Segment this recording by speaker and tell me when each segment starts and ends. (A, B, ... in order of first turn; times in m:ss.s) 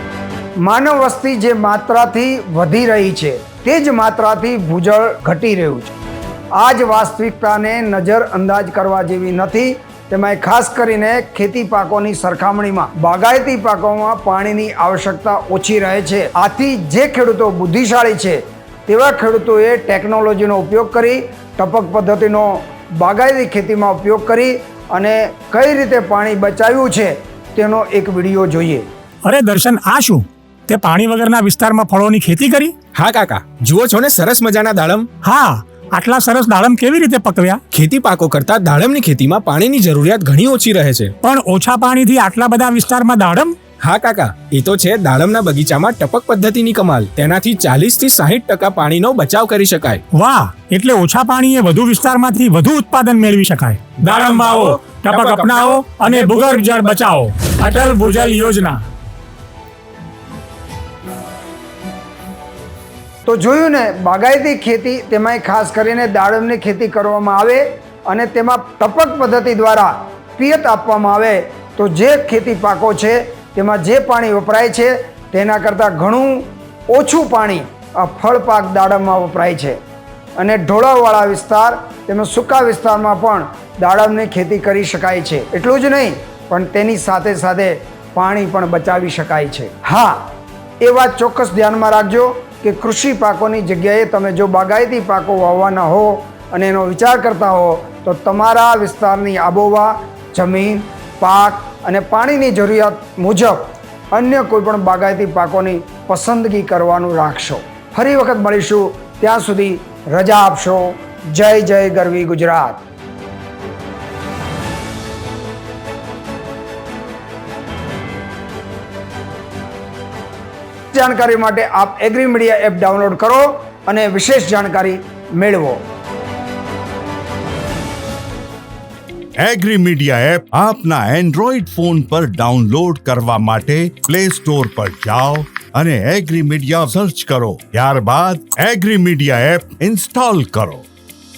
0:00.6-0:05.9 A
0:06.6-0:28.8 A
0:29.2-0:32.7 B
0:33.0-0:35.1 C
0:35.2-0:37.6 B
0:37.7-0:41.1 C
0:41.2-0:43.6 B
0:43.8-0:50.0 C
0:50.1-0:58.8 B
0:54.0-0:56.4 C
1:03.2-1:19.8 A
1:20.4-1:30.3 A
1:30.8-1:43.6 A
1:44.1-1:52.8 A
2:00.9-2:05.8 A
2:09.4-2:20.8 D